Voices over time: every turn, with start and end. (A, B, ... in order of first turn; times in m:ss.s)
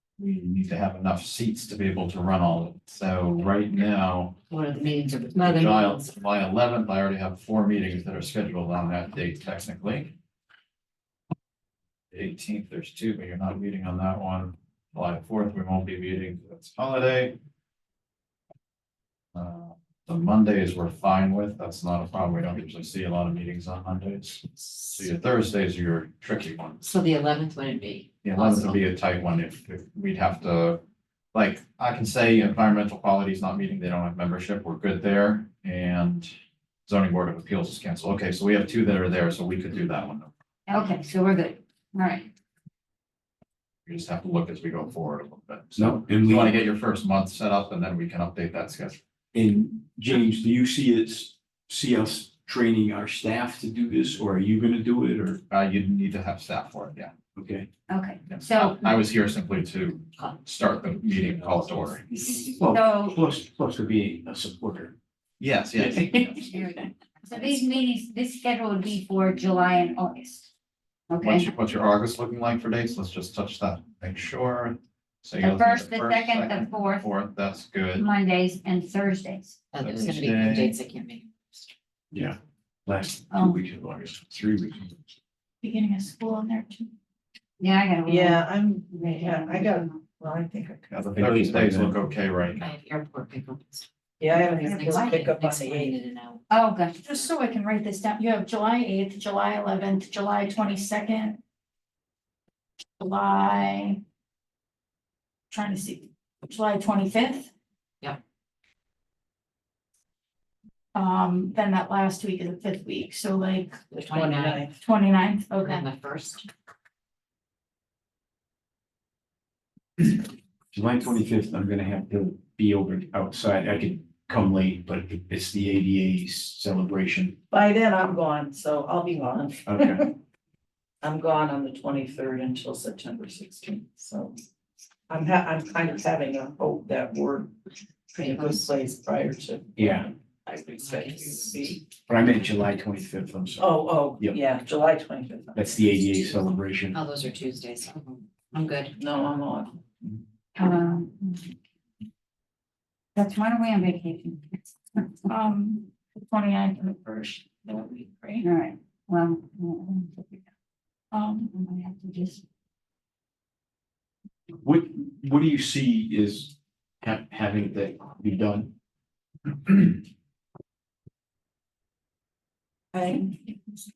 0:00.2-0:04.4 A
0:04.5-0:06.1 B
0:05.3-0:10.1 A
0:12.1-0:17.4 A
0:19.3-0:26.8 A
0:26.8-0:28.8 B
0:28.2-0:30.8 A
0:31.3-0:36.3 A
0:36.9-0:40.3 A
0:40.7-0:42.3 C
0:43.8-0:49.0 A
0:45.8-0:46.6 D
0:49.3-0:55.4 D
0:55.5-0:57.1 A
0:57.4-0:57.7 D
0:57.9-0:58.9 C
0:58.3-1:02.4 A
1:02.4-1:04.9 D
1:02.6-1:03.2 C
1:05.4-1:06.5 A
1:05.8-1:06.4 D
1:06.5-1:10.5 C
1:11.1-1:11.4 C
1:11.2-1:18.0 A
1:15.4-1:17.1 C
1:18.0-1:19.6 C
1:19.7-1:21.7 B
1:19.8-1:20.7 A
1:22.1-1:25.0 D
1:23.3-1:23.6 C
1:25.6-1:26.9 E
1:27.6-1:30.0 C
1:28.0-1:31.0 F
1:30.9-1:32.7 A
1:31.1-1:32.0 D
1:32.6-1:33.9 B
1:34.2-1:36.0 F
1:34.4-1:36.4 B
1:34.4-1:35.2 C
1:36.5-1:37.0 C
1:37.0-1:41.4 E
1:43.0-1:44.0 E
1:45.5-1:47.5 E
1:50.9-1:53.8 E
1:53.9-1:54.8 F
1:54.0-1:54.7 B
1:54.8-1:55.8 E
1:55.5-1:56.5 B
2:00.7-2:07.4 D
2:07.5-2:10.1 F
2:09.7-2:10.0 D
2:11.0-2:14.4 F
2:15.1-2:17.5 F
2:18.1-2:21.8 F
2:18.1-2:18.7 B
2:19.8-2:20.1 D
2:20.8-2:21.5 B
2:22.1-2:24.4 D
2:23.6-2:25.7 F
2:25.5-2:27.0 D
2:26.1-2:26.4 B
2:26.9-2:29.0 B
2:29.0-2:29.8 F
2:30.6-2:31.4 C
2:33.1-2:34.4 C
2:35.0-2:35.3 C
2:35.3-2:38.4 E
2:38.4-2:40.4 C
2:41.1-2:41.5 E
2:41.5-2:42.4 C
2:44.6-2:48.7 D
2:49.6-2:50.0 D
2:52.9-2:53.5 F